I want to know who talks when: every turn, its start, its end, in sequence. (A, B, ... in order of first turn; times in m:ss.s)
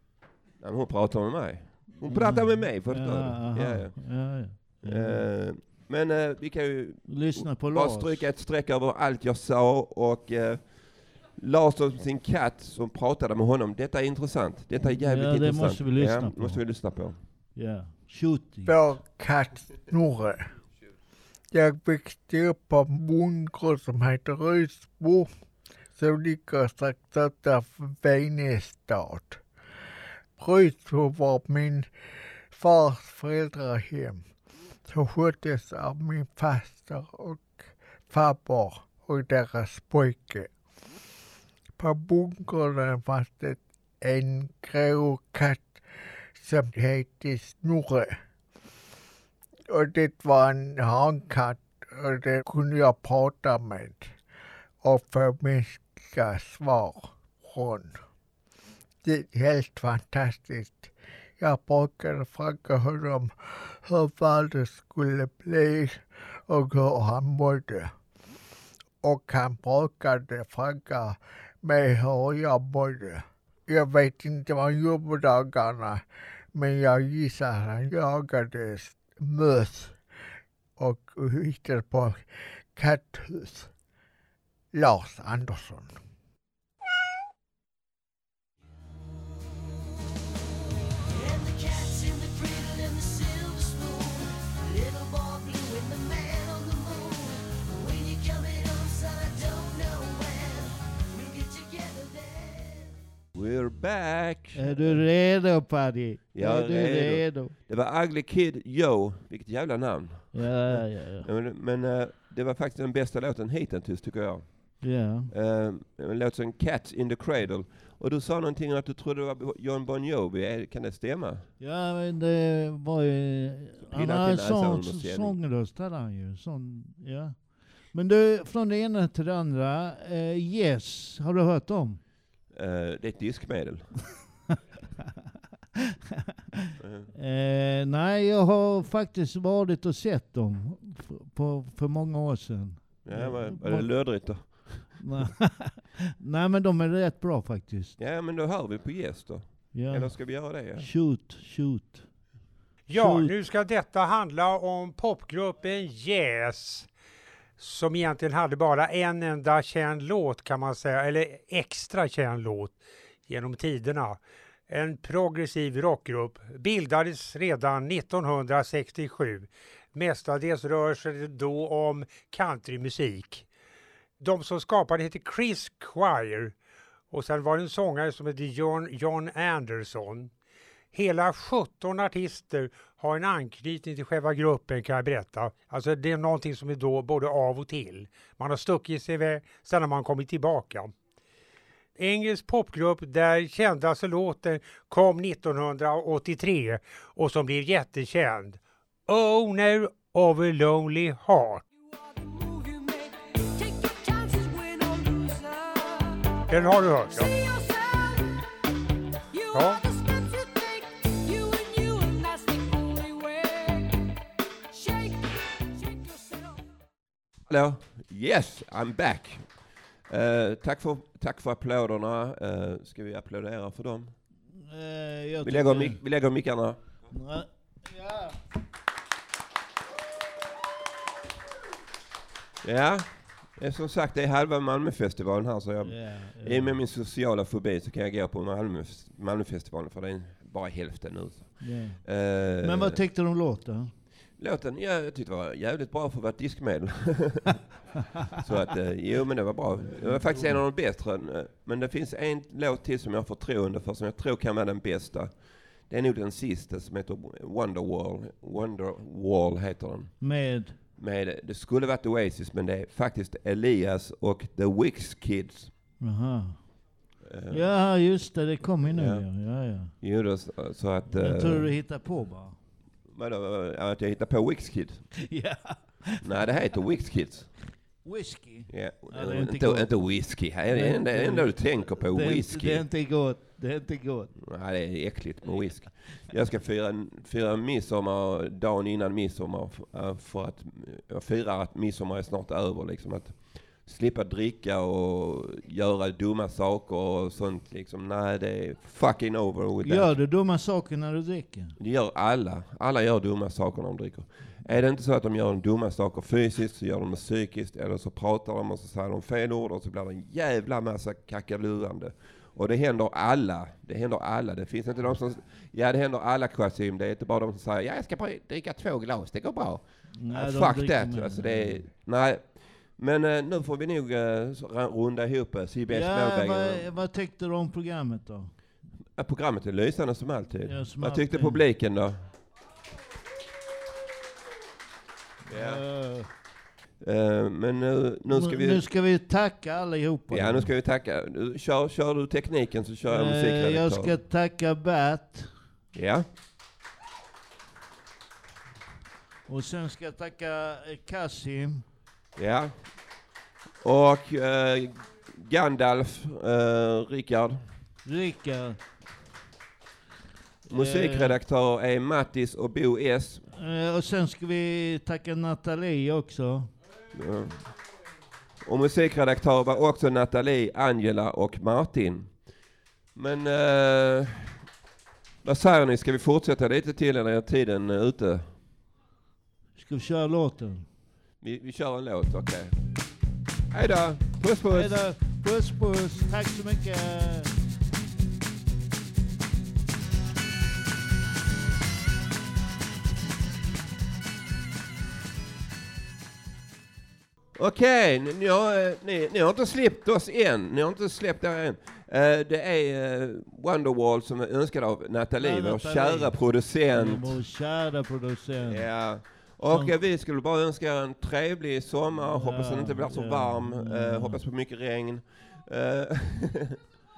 0:00.6-0:17.2 A
0:02.0-0:05.2 B
0:07.1-0:08.3 B
0:14.8-0:18.7 B
0:18.6-0:20.5 C
0:21.5-0:25.3 C
0:25.9-0:29.4 C
0:30.4-0:31.9 C
0:32.5-0:34.2 C
0:34.8-0:40.5 C
0:41.8-0:45.8 C
0:46.4-0:48.2 C
0:49.7-0:54.2 C
0:54.8-0:58.0 C
0:59.0-1:07.9 C
1:09.0-1:20.0 C
1:20.8-1:23.7 C
1:24.7-1:26.0 C
1:43.3-1:45.1 A
1:44.6-1:47.5 B
1:46.3-2:01.5 A
1:50.3-1:51.3 B
1:54.8-1:55.3 B
2:01.6-2:12.0 B
2:03.9-2:05.4 A
2:12.5-2:14.1 A
2:16.8-2:17.1 A
2:17.1-2:28.0 B
2:23.0-2:25.0 A
2:28.0-2:30.9 A
2:29.7-2:32.1 B
2:32.9-2:36.9 D
2:32.9-2:33.3 B
2:37.6-2:53.5 D
2:54.2-2:56.6 D
2:57.1-3:00.3 D
3:00.9-3:10.9 D
3:12.0-3:21.6 D
3:21.8-3:28.4 E
3:26.5-3:27.3 D
3:29.3-3:34.0 E
3:29.5-3:29.8 D
3:34.7-3:36.7 E
3:37.5-3:44.2 A
3:44.5-3:46.0 B
3:45.4-3:46.8 A
3:47.1-3:48.3 B
3:52.6-4:03.0 A
3:55.8-3:56.8 B
4:01.6-4:02.0 B
4:02.6-4:03.9 B
4:04.4-4:07.6 A
4:08.4-4:20.4 A
4:09.9-4:10.6 B
4:20.2-4:20.8 B
4:21.0-4:25.7 A
4:26.0-4:26.7 B
4:27.2-4:27.7 A
4:27.5-4:29.9 B
4:28.9-4:29.3 A
4:29.8-4:31.7 A
4:31.1-4:32.6 B
4:33.1-4:35.1 A
4:35.2-4:36.2 B
4:36.2-4:37.6 A
4:38.0-4:44.3 B
4:38.7-4:42.8 A
4:44.4-5:00.2 A
4:59.8-5:01.7 B
5:01.8-5:26.9 A
5:20.1-5:21.9 B
5:25.9-5:28.5 B
5:29.2-5:32.2 A
5:30.6-5:31.6 B
5:35.4-5:36.3 B
5:35.5-5:35.8 A
5:37.0-5:38.8 A
5:38.3-5:40.7 B
5:40.3-5:44.2 A
5:43.1-5:45.5 B
5:45.9-5:46.3 A
5:49.5-5:51.8 B
5:52.4-5:52.9 A
5:53.8-5:57.6 A
5:58.0-5:58.8 B
6:00.7-6:01.3 B
6:00.7-6:03.5 A
6:03.6-6:06.7 B
6:07.1-6:07.7 A
6:08.6-6:12.6 A
6:13.1-6:14.6 A
6:15.4-6:18.5 A
6:19.8-6:20.9 B
6:21.4-6:22.7 A
6:23.7-6:25.0 A
6:24.7-6:27.5 B
6:37.6-6:47.4 A
6:45.4-6:49.1 B
6:48.6-6:56.7 A
6:52.2-6:54.4 B